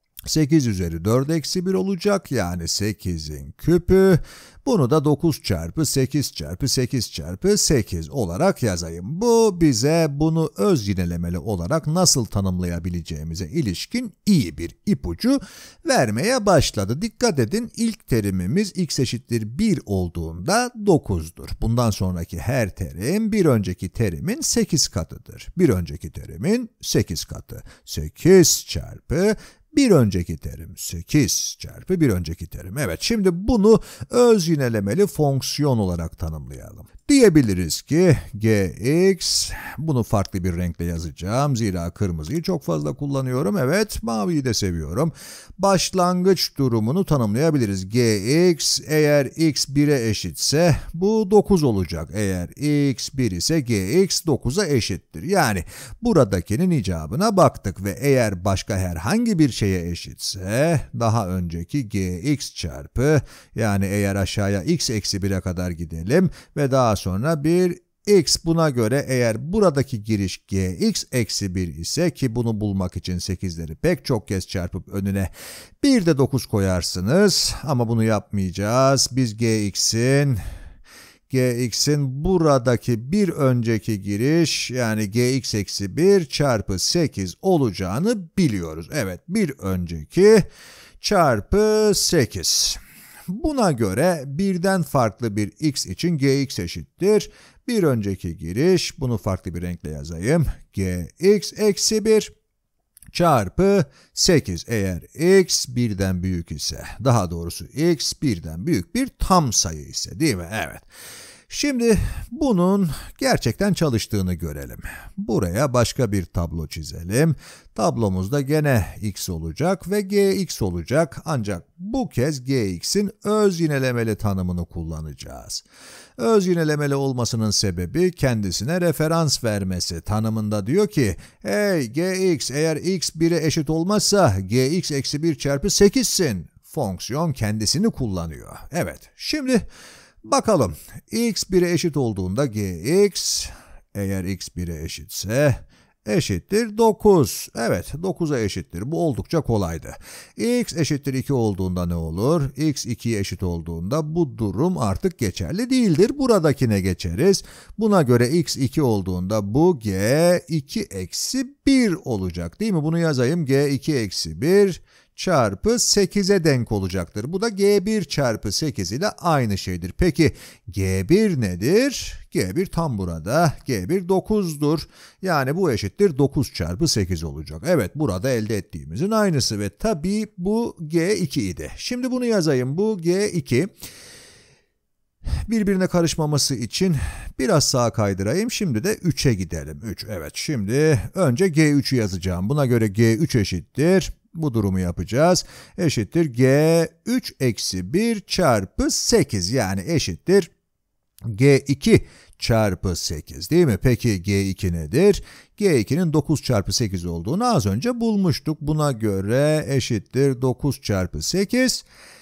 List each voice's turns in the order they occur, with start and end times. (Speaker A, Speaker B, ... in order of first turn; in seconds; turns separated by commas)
Speaker A: 0.2-80.4, Speaker A: 81.3-90.5, Speaker A: 91.0-102.3, Speaker A: 103.1-110.9, Speaker A: 111.5-125.6, Speaker A: 126.2-139.7, Speaker A: 140.2-183.7, Speaker A: 185.5-200.5, Speaker A: 201.3-211.8